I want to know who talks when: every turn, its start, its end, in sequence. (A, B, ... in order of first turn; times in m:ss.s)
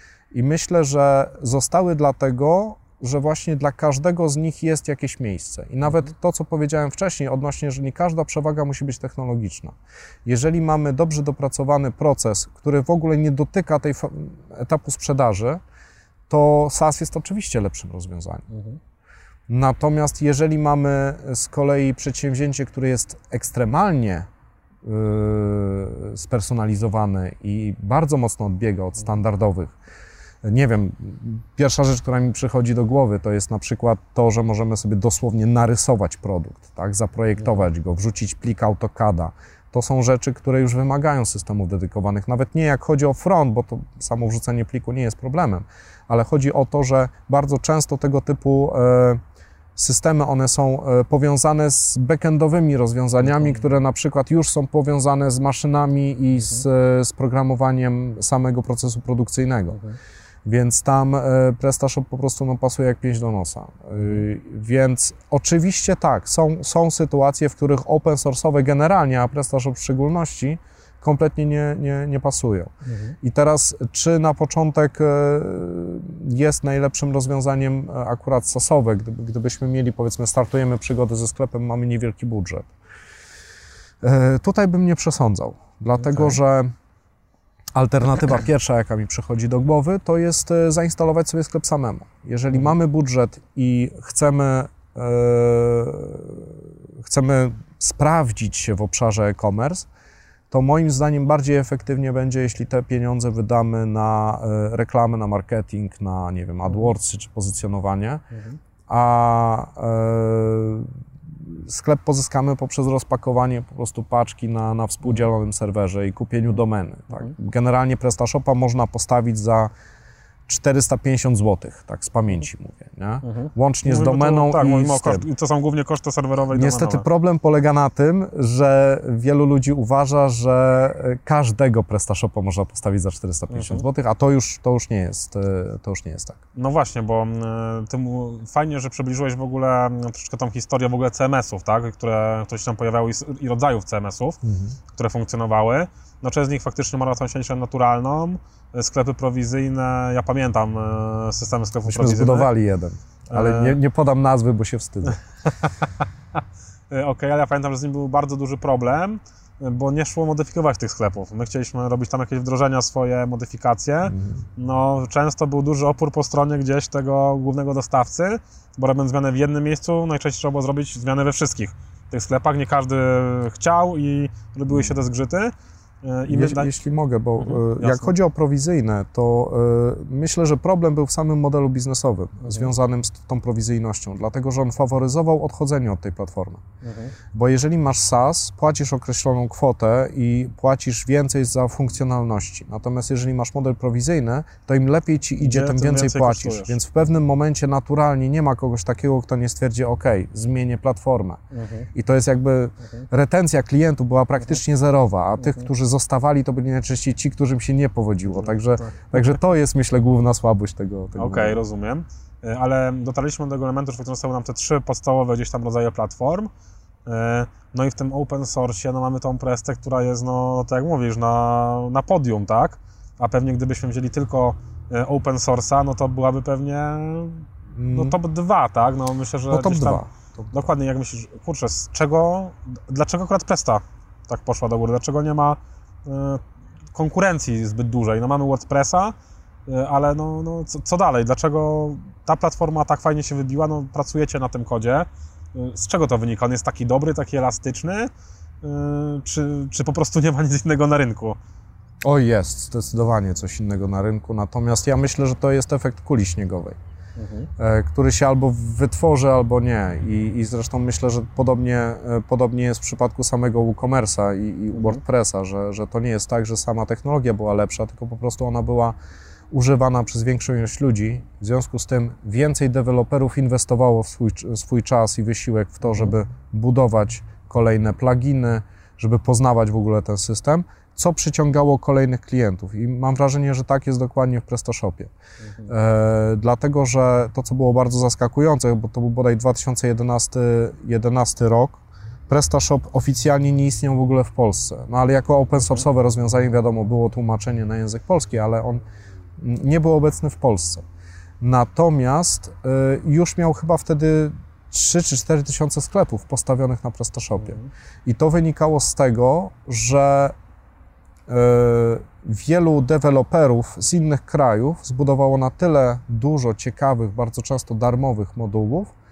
0:00.3-0:15.6 A
0:16.3-0:18.5 A
0:18.5-0:18.8 B
0:19.5-0:24.3 A
0:24.8-0:29.7 A
0:30.4-0:49.2 A
0:37.4-0:37.6 B
0:49.7-0:59.8 A
0:53.2-0:53.6 B
0:56.4-0:56.6 B
0:59.7-1:00.0 B
1:00.4-1:22.7 A
1:04.0-1:04.2 B
1:12.8-1:13.2 B
1:24.0-1:26.7 A
1:26.0-1:26.4 B
1:27.7-1:39.9 A
1:40.5-1:48.2 A
1:48.3-1:48.6 B
1:48.9-1:59.7 A
2:00.5-2:05.3 A
2:03.2-2:07.0 B
2:06.5-2:16.4 A
2:13.5-2:13.8 B
2:16.6-2:24.4 B
2:24.4-2:24.8 A
2:24.9-2:32.5 B
2:31.8-2:35.2 A
2:33.3-2:33.8 B
2:35.4-2:56.8 B
2:44.1-2:44.4 A
2:56.3-3:06.6 A
2:57.4-2:58.1 B
3:02.4-3:02.7 B
3:06.8-3:07.1 B
3:07.3-3:21.4 A
3:15.4-3:16.8 B
3:21.5-3:21.9 B
3:21.9-3:31.6 A
3:25.4-3:25.7 B
3:28.3-3:29.1 B
3:31.2-3:36.5 B
3:37.0-3:56.4 B
3:47.7-3:48.2 A
3:49.5-3:50.7 A
3:56.9-3:59.1 B
3:59.7-4:08.1 B
4:08.6-4:11.4 B
4:12.0-4:16.8 A
4:17.2-4:17.5 B
4:17.6-4:28.9 A
4:24.7-4:25.0 B
4:29.5-4:45.1 A
4:45.4-4:45.7 B
4:45.7-4:58.8 A
4:59.4-5:00.8 A
5:01.4-5:10.3 A
5:07.4-5:07.7 B
5:11.3-5:18.9 A